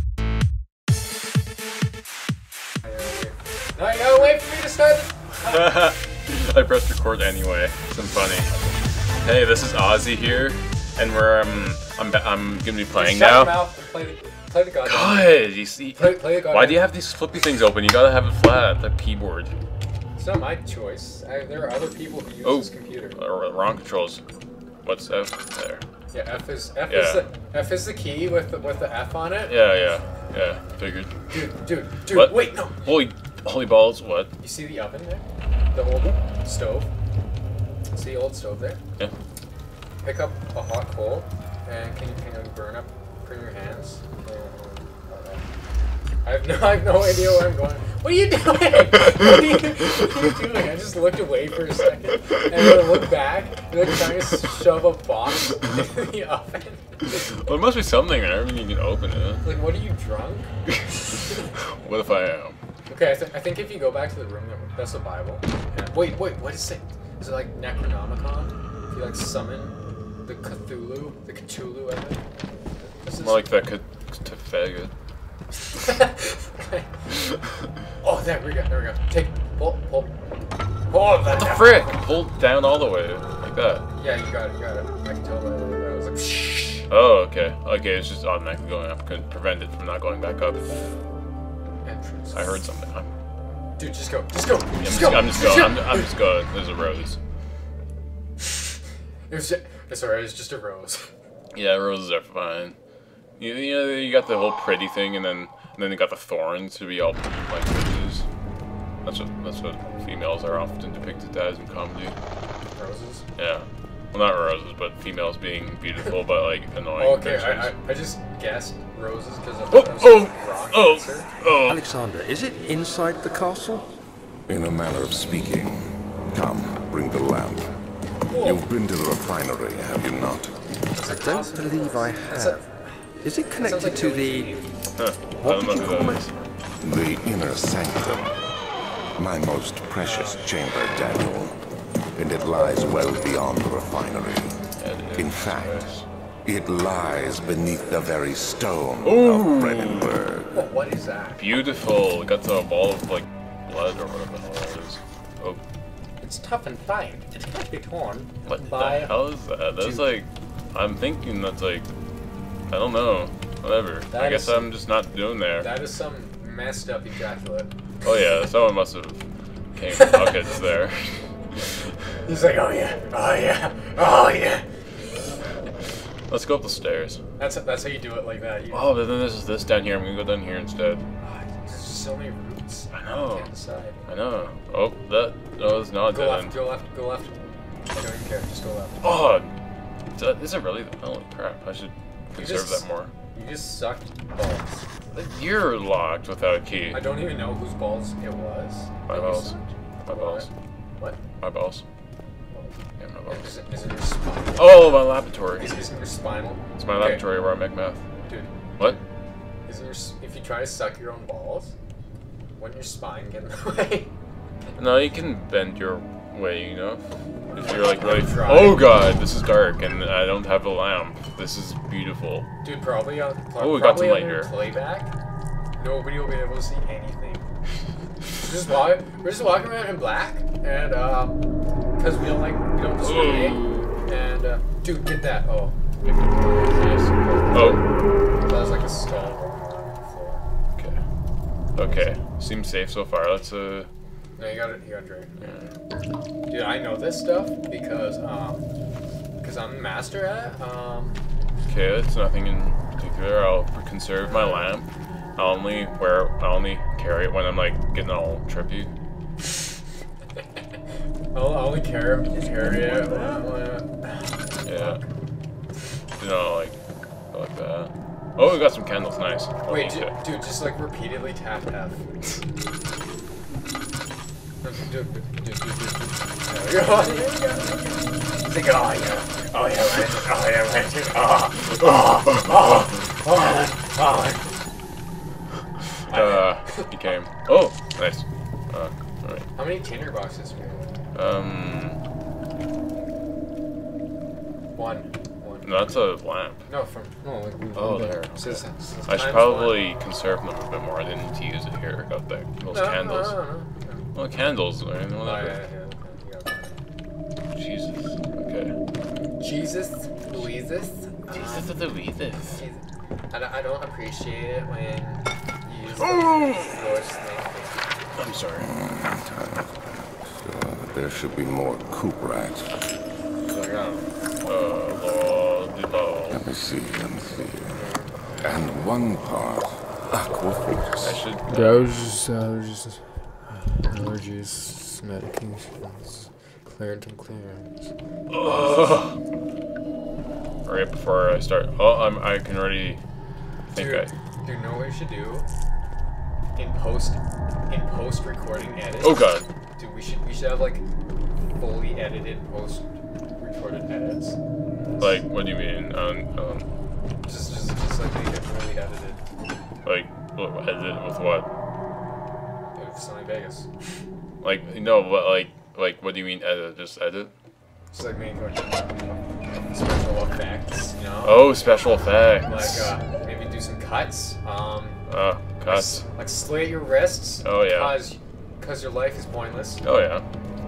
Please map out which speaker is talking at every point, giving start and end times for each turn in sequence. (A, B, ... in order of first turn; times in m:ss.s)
0:02.8-0:05.8 A
0:05.4-0:08.5 B
0:09.2-0:13.7 B
0:12.9-0:15.4 A
0:14.8-0:19.5 B
0:15.9-0:16.9 A
0:20.2-0:23.2 A
0:22.4-0:24.2 B
0:24.8-0:25.8 B
0:26.1-0:29.6 A
0:26.9-0:27.3 B
0:29.5-0:31.2 B
0:31.3-0:33.0 A
0:32.1-0:34.3 B
0:34.4-0:36.9 A
0:37.9-0:38.8 A
0:40.0-0:45.4 A
0:46.2-0:57.3 A
0:57.1-0:59.5 B
0:59.4-1:01.4 A
1:01.8-1:02.6 B
1:02.9-1:12.2 A
1:13.0-1:13.4 A
1:13.2-1:14.9 B
1:15.7-1:17.0 A
1:18.0-1:20.1 A
1:20.9-1:22.1 A
1:21.4-1:23.9 B
1:23.9-1:26.9 A
1:26.9-1:30.9 B
1:31.8-1:32.6 A
1:32.3-1:33.1 B
1:33.8-1:36.1 A
1:34.8-1:37.2 B
1:39.3-1:41.1 A
1:41.5-1:42.8 B
1:43.4-1:48.3 B
1:49.0-1:52.2 B
1:52.8-1:53.2 A
1:53.4-1:57.7 B
1:57.0-2:01.3 A
1:59.7-2:01.8 B
2:01.6-2:03.9 C
2:04.5-2:07.8 D
2:08.3-2:08.7 A
2:08.4-2:10.6 D
2:10.9-2:13.0 A
2:11.0-2:12.6 C
2:13.2-2:14.6 C
2:13.6-2:14.8 A
2:15.0-2:16.4 B
2:15.4-2:16.3 C
2:16.8-2:18.4 D
2:19.2-2:21.6 D
2:20.0-2:20.6 A
2:22.2-2:24.6 D
2:24.8-2:26.1 B
2:25.2-2:25.9 D
2:26.4-2:30.6 D
2:29.0-2:30.2 B
2:30.5-2:31.6 A
2:31.4-2:35.6 B
2:36.2-2:39.2 A
2:38.5-2:41.9 B
2:39.8-2:40.1 A
2:42.7-2:45.7 B
2:44.1-2:44.7 A
2:45.6-2:47.7 A
2:48.0-2:51.7 B
2:49.9-2:50.6 A
2:52.2-2:54.6 A
2:56.3-2:57.2 B
2:57.4-2:58.9 A
2:58.7-3:01.0 B
3:01.2-3:04.1 A
3:02.9-3:03.5 B
3:04.1-3:06.6 B
3:06.0-3:09.2 A
3:09.0-3:09.5 B
3:10.2-3:13.1 B
3:12.4-3:14.9 A
3:15.1-3:17.1 B
3:16.9-3:21.2 A
3:19.1-3:20.5 B
3:21.4-3:21.8 B
3:22.5-3:27.2 A
3:23.0-3:23.5 B
3:24.6-3:25.8 B
3:26.8-3:28.0 B
3:28.3-3:29.0 A
3:29.7-3:31.7 A
3:32.6-3:34.1 A
3:34.8-3:42.5 B
3:37.5-3:39.0 A
3:42.6-3:45.1 A
3:43.6-3:44.5 B
3:45.8-3:47.5 A
3:48.3-3:51.4 A
3:52.0-3:55.8 A
3:53.0-3:53.9 B
3:56.0-3:57.8 B
3:56.4-3:57.8 A
3:58.4-4:00.4 A
4:01.8-4:03.9 B
4:04.4-4:05.7 A
4:05.4-4:05.7 B
4:06.5-4:08.6 A
4:09.4-4:11.2 A
4:11.7-4:18.9 B
4:14.2-4:14.7 A
4:21.3-4:25.1 A
4:24.6-4:25.0 B
4:26.2-4:26.8 B
4:27.3-4:30.1 B
4:29.7-4:32.0 A
4:34.6-4:44.5 A
4:46.1-4:49.5 B
4:46.1-4:47.0 A
4:49.6-4:50.9 A
4:51.2-4:52.0 B
4:54.8-4:56.0 A
4:55.6-4:56.6 B
4:56.7-4:59.9 A
4:57.8-5:03.4 B
5:02.7-5:04.1 A
5:04.2-5:05.6 B
5:05.2-5:06.8 A
5:07.6-5:08.7 B
5:09.3-5:11.8 A
5:11.3-5:12.6 B
5:12.4-5:17.9 A
5:16.0-5:16.8 B
5:18.2-5:18.7 B
5:18.6-5:22.8 D
5:23.5-5:23.8 B
5:23.5-5:24.0 A
5:24.4-5:26.4 B
5:26.3-5:27.8 D
5:27.7-5:28.1 A
5:28.4-5:31.2 D
5:31.0-5:32.1 B
5:31.5-5:37.8 A
5:38.3-5:39.2 B
5:40.6-5:43.0 B
5:43.7-5:44.1 B
5:43.7-5:45.5 A
5:46.6-5:50.9 A
5:49.0-5:49.5 B
5:51.4-5:55.2 A
5:55.0-5:56.7 B
5:57.2-5:59.2 A
5:59.8-6:01.5 B
6:02.8-6:03.7 A
6:04.4-6:07.3 B
6:07.9-6:09.2 A
6:09.7-6:11.7 A
6:11.2-6:12.9 B
6:12.4-6:15.0 A
6:15.1-6:16.0 B
6:15.7-6:19.8 A
6:17.4-6:18.0 B
6:19.8-6:20.2 B